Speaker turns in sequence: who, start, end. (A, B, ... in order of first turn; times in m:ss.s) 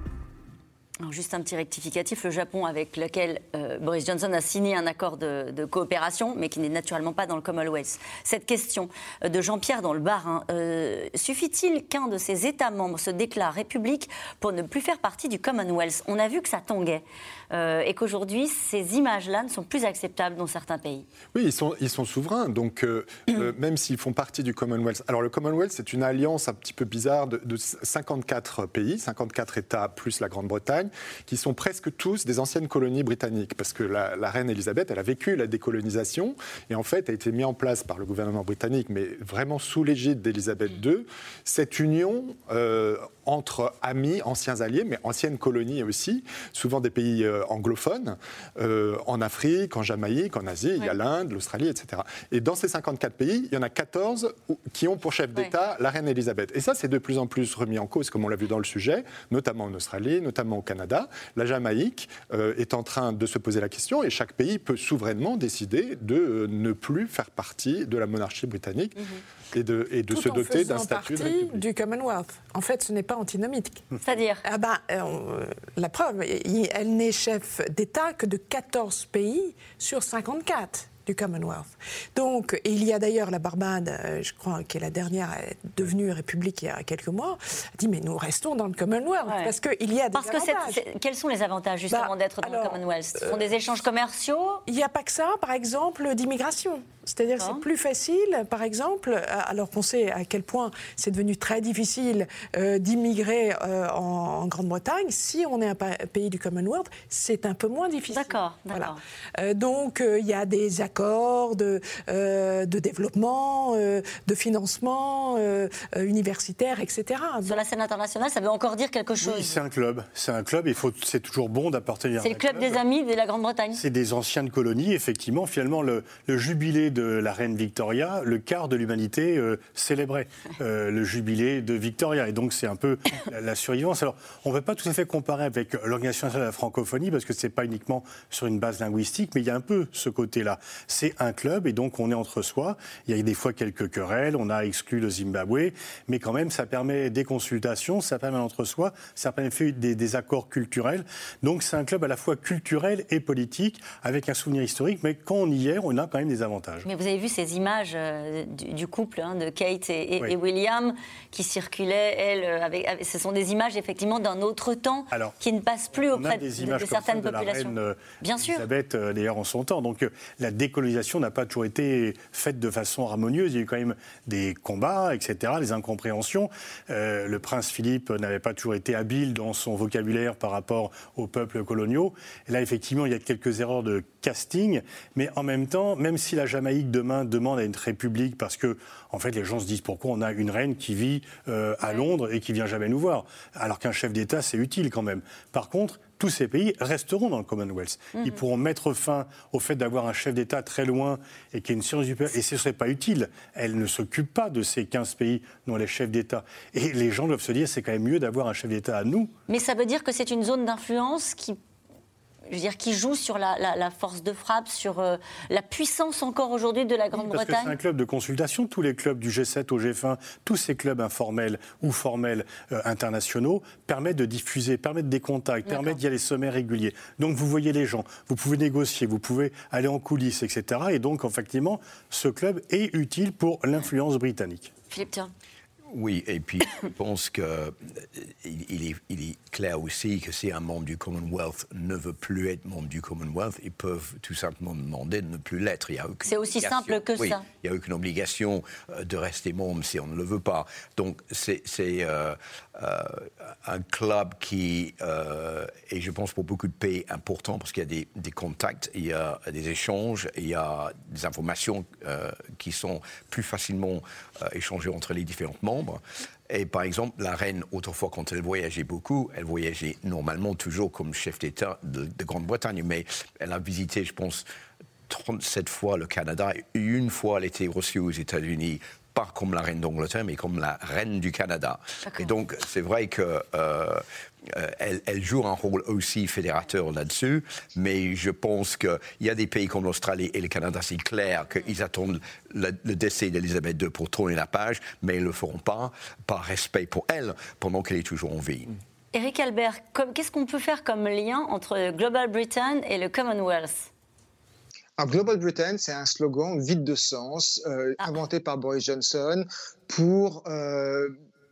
0:01.0-0:21.0 A
0:21.3-1:09.0 B
1:09.5-1:11.6 B
1:10.1-1:13.8 C
1:14.0-1:14.4 A
1:14.4-1:30.8 C
1:29.2-1:29.5 A
1:30.1-1:34.6 A
1:31.9-1:33.4 C
1:34.7-1:57.6 C
1:37.4-1:37.6 A
1:48.1-1:49.0 A
1:57.4-1:59.6 A
1:59.2-2:02.8 D
2:02.2-2:03.8 A
2:03.7-2:36.8 D
2:36.8-2:48.7 A
2:46.1-3:29.3 D
3:18.1-3:18.4 A
3:29.5-3:31.6 A
3:32.5-3:37.7 A
3:37.1-3:54.7 D
3:45.7-3:46.0 A
3:54.9-3:55.3 A
3:55.9-4:34.4 E
4:06.2-4:07.4 A
4:35.1-4:58.8 E
4:42.0-4:42.3 A
4:59.1-5:03.9 A
5:05.0-5:11.1 F